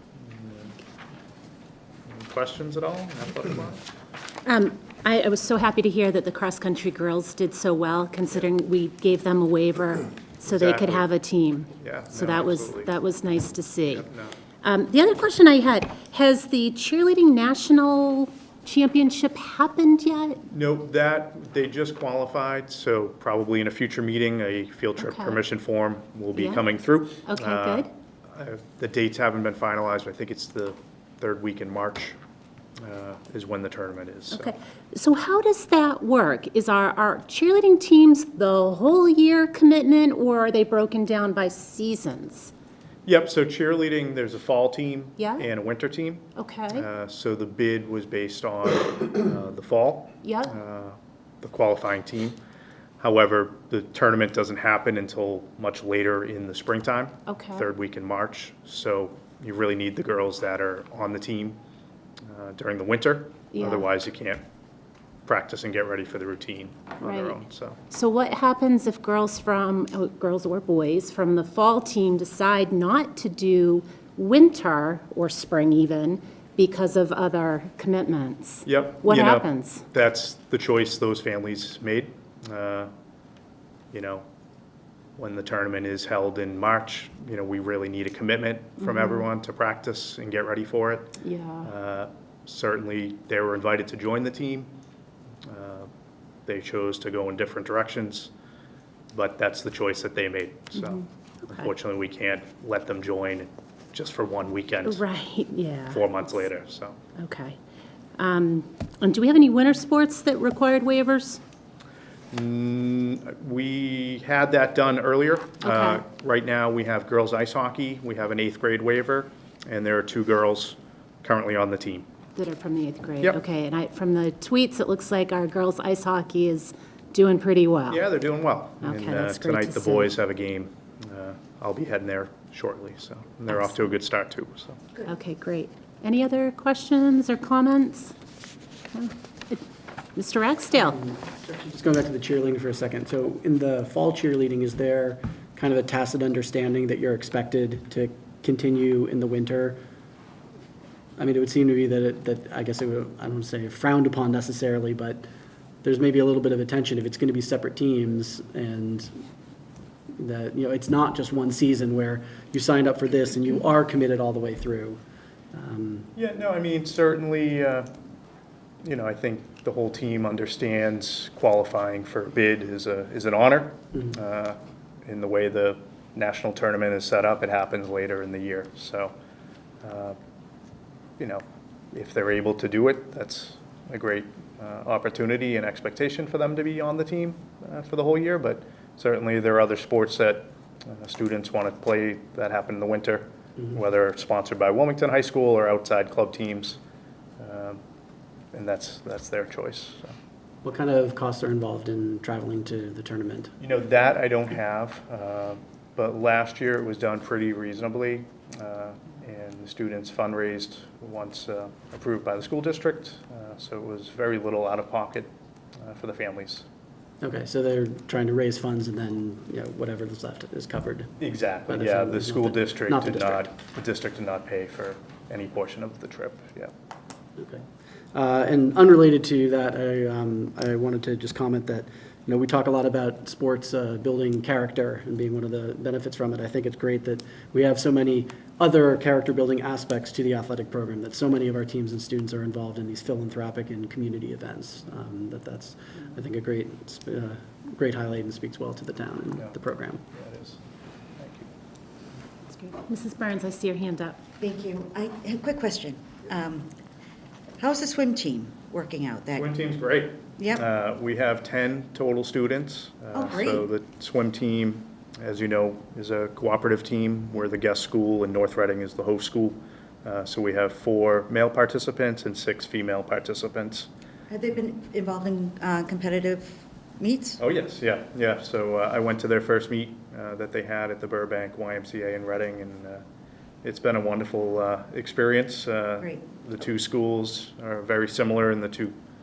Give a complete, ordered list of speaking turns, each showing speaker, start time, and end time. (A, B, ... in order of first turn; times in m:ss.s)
0:00.2-0:00.7 A
0:02.1-0:03.8 A
0:04.4-0:14.1 B
0:10.5-0:11.1 A
0:11.8-0:12.9 A
0:13.9-0:14.4 A
0:14.6-0:20.4 B
0:20.5-0:32.2 A
0:25.0-0:25.4 B
0:26.3-0:26.7 B
0:27.3-0:27.9 B
0:32.8-0:34.5 A
0:34.3-0:42.5 B
0:43.0-0:52.4 A
0:45.2-0:45.5 B
0:46.4-0:46.9 B
0:50.2-0:50.5 B
0:53.0-1:01.6 A
0:57.3-0:57.7 B
1:02.3-1:04.4 A
1:03.5-1:03.9 B
1:05.3-1:07.8 A
1:07.0-1:07.4 B
1:07.9-1:19.8 B
1:18.7-1:22.9 A
1:23.9-1:24.2 A
1:25.2-1:34.7 A
1:28.8-1:29.3 B
1:31.2-1:31.7 B
1:35.4-1:35.9 A
1:36.5-1:38.3 A
1:39.1-1:45.0 A
1:40.8-1:41.7 B
1:44.8-1:46.3 B
1:45.9-1:47.0 A
1:47.2-1:47.6 B
1:48.2-1:51.4 B
1:52.3-2:02.1 A
1:55.6-1:56.0 B
2:02.4-2:08.0 B
2:07.9-2:14.8 A
2:08.8-2:10.1 B
2:13.5-2:13.8 B
2:15.0-2:18.1 B
2:18.9-2:19.6 B
2:20.2-2:21.0 B
2:20.8-2:29.8 C
2:31.2-2:35.2 C
2:35.8-2:39.2 C
2:40.2-2:45.0 C
2:45.5-2:46.1 C
2:46.2-2:47.9 A
2:48.8-2:59.1 A
2:59.8-3:00.2 A
3:01.2-3:16.8 A
3:17.4-3:17.8 A
3:18.5-3:20.2 A
3:20.6-3:23.5 C
3:23.6-3:36.7 A
3:37.2-3:41.1 C
3:41.2-3:46.7 A
3:41.7-3:43.5 C
3:47.4-3:47.6 C
3:48.1-4:10.0 C
4:10.1-4:10.6 A
4:11.2-4:11.5 A
4:12.5-4:14.2 B
4:14.4-4:16.7 D
4:17.6-4:19.5 D
4:19.4-4:33.9 A
4:20.4-4:20.6 D
4:23.1-4:23.6 D
4:34.3-4:37.4 D
4:37.4-4:43.0 A
4:43.6-4:49.0 A